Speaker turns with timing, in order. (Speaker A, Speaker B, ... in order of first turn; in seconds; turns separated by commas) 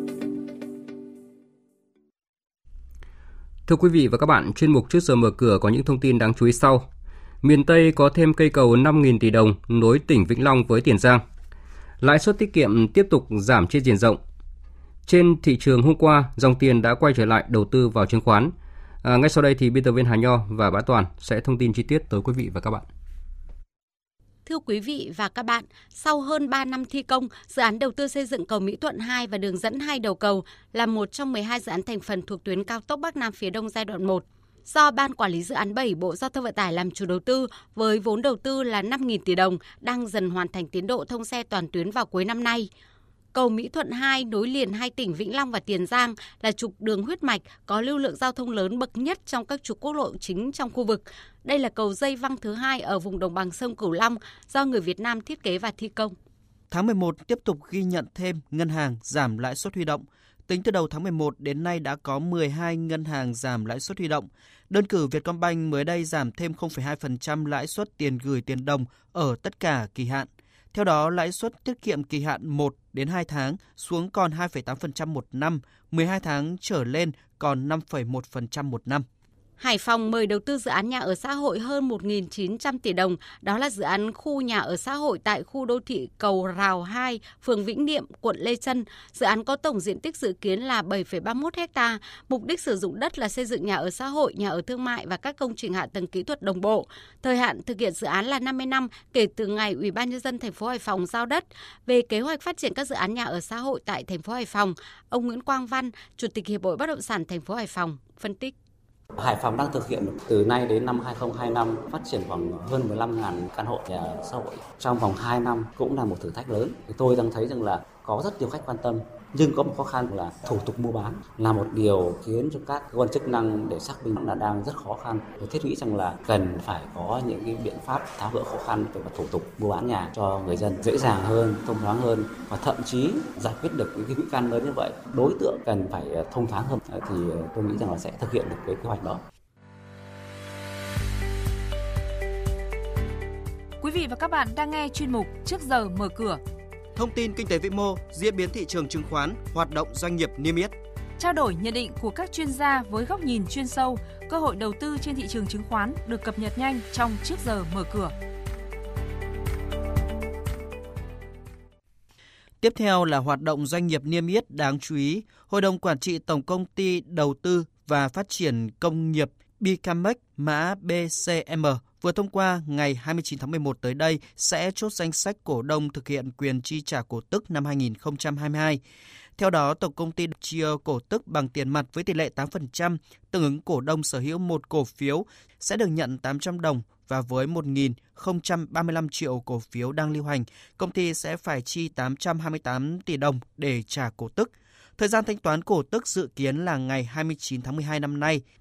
Speaker A: 3.7-6.8, Speaker A: 7.4-11.2, Speaker A: 12.0-14.2, Speaker A: 15.1-18.5, Speaker A: 19.0-22.9, Speaker B: 24.4-42.7, Speaker B: 43.3-56.1, Speaker C: 56.7-79.0, Speaker B: 79.6-108.5, Speaker D: 109.2-139.2, Speaker E: 143.8-146.4, Speaker C: 146.9-150.7, Speaker E: 151.2-158.1, Speaker C: 162.6-178.8, Speaker C: 179.4-198.4